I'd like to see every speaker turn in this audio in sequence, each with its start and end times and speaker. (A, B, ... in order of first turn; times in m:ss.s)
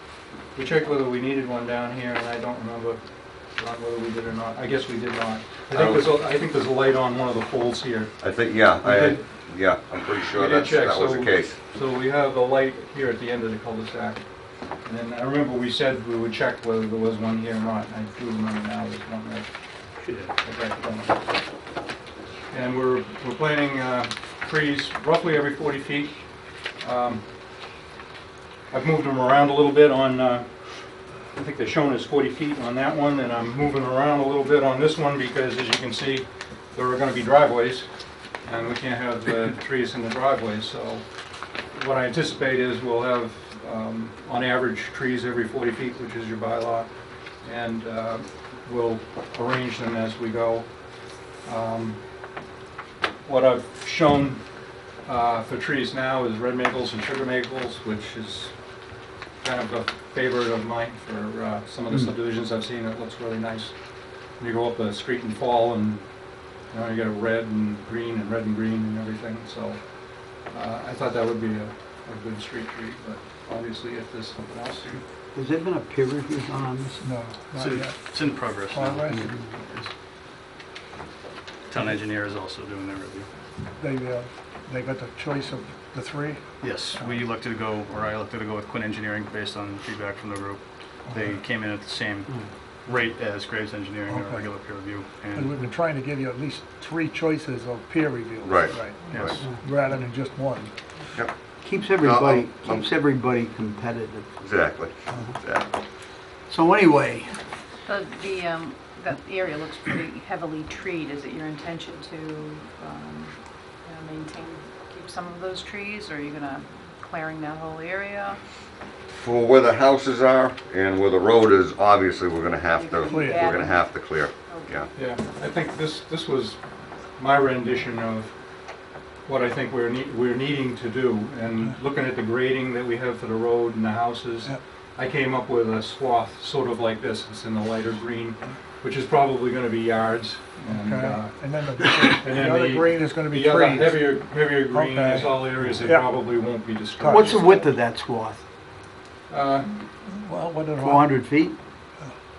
0:00.5-0:03.0 A
0:03.5-0:08.2 A
0:05.7-0:06.1 B
0:08.2-0:11.6 B
0:08.8-0:09.2 A
0:10.2-0:14.2 A
0:14.8-0:19.5 A
0:20.4-0:21.2 A
0:22.5-0:26.2 A
0:26.8-0:27.2 A
0:28.7-0:30.5 A
0:31.3-0:37.9 A
0:38.4-0:41.0 A
0:41.7-0:46.9 A
0:47.4-0:50.7 A
0:51.4-0:52.0 A
0:53.2-0:54.4 A
0:55.0-0:58.5 A
0:59.4-1:03.7 A
1:04.4-1:06.0 A
1:06.7-1:09.8 A
1:10.5-1:15.0 A
1:15.3-1:17.0 C
1:17.0-1:19.3 D
1:17.6-1:19.9 E
1:19.1-1:19.5 C
1:21.7-1:23.3 E
1:23.8-1:26.4 D
1:26.6-1:35.6 E
1:31.1-1:31.3 D
1:34.1-1:34.5 D
1:35.3-1:40.7 D
1:38.4-1:39.4 B
1:39.1-1:39.4 E
1:41.6-1:44.3 C
1:42.0-1:42.9 B
1:44.4-1:45.7 B
1:46.5-1:47.3 C
1:47.9-1:53.3 F
1:53.8-1:58.4 F
1:59.1-2:04.9 B
2:02.7-2:04.9 F
2:03.1-2:03.5 D
2:05.0-2:06.6 A
2:07.2-2:08.3 A
2:09.2-2:21.4 A
2:20.7-2:26.1 D
2:22.0-2:27.7 A
2:27.0-2:27.4 D
2:27.0-2:28.4 C
2:29.3-2:29.8 A
2:30.0-2:31.2 D
2:30.8-2:31.6 C